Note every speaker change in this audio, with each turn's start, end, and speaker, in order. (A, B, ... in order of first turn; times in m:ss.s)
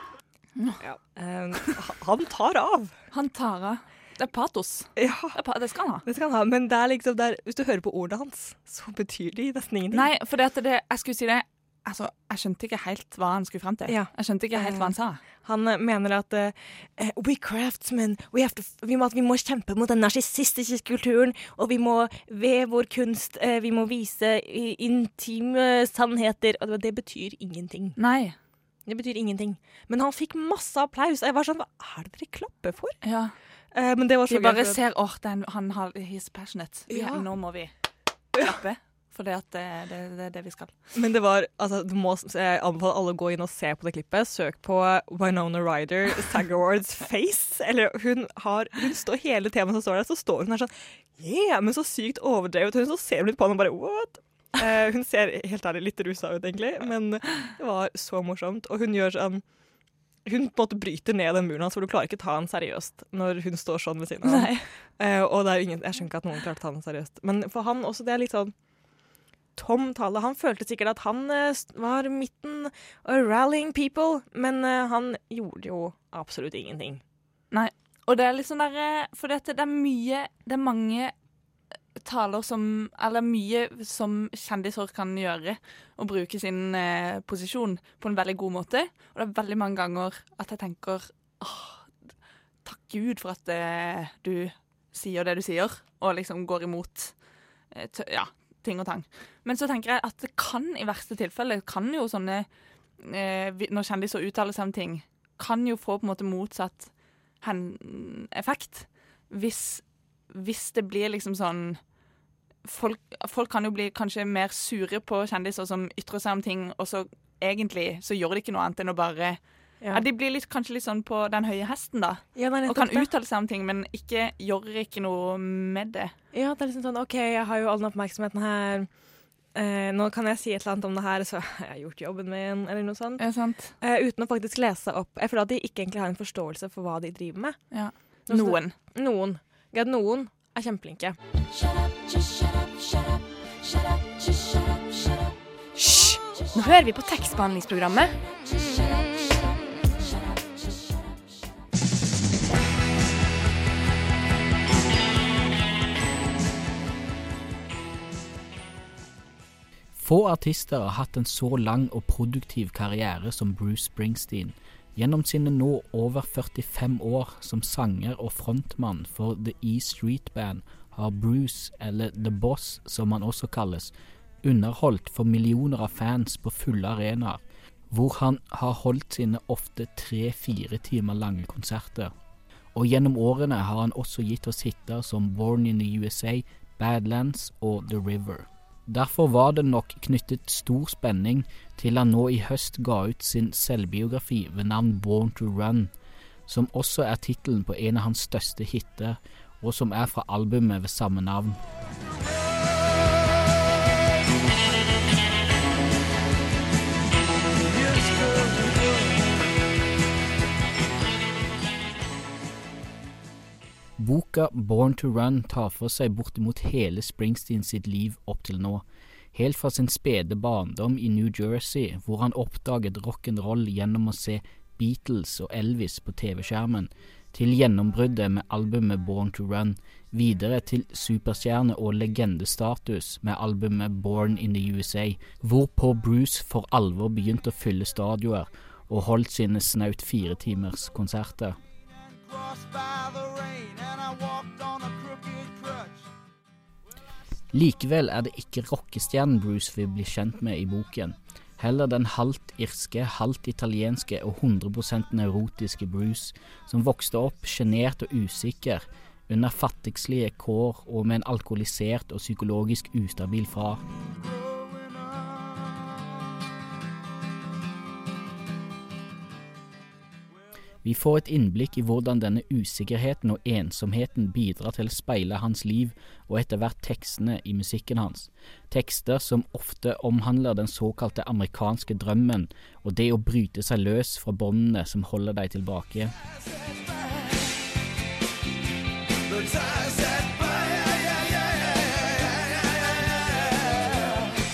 0:00.6-0:00.8 A
0:00.8-0:03.0 B
0:03.1-0:06.1 A
0:05.0-0:05.4 B
0:06.0-0:10.1 B
0:09.9-0:15.2 A
0:13.9-0:28.0 B
0:28.0-0:28.4 A
0:28.8-0:33.0 B
0:33.0-0:33.4 A
0:33.7-0:34.8 B
0:34.3-0:37.8 A
0:36.9-0:37.3 B
0:38.4-0:40.8 A
0:41.0-0:59.7 B
1:00.2-1:17.0 B
1:04.2-1:04.8 A
1:17.5-1:21.2 A
1:22.0-1:52.0 A
1:52.6-2:06.2 A
2:02.3-2:03.1 B
2:06.3-2:13.3 B
2:13.2-2:13.8 A
2:13.8-2:21.2 B
2:17.7-2:18.8 A
2:25.8-2:28.2 C
2:40.0-3:02.1 D
3:02.7-3:15.9 D
3:16.5-3:21.6 D
3:27.7-3:29.0 E
3:34.0-4:01.6 D
4:07.5-4:23.8 D
4:30.8-4:46.1 D
4:49.3-4:51.0 E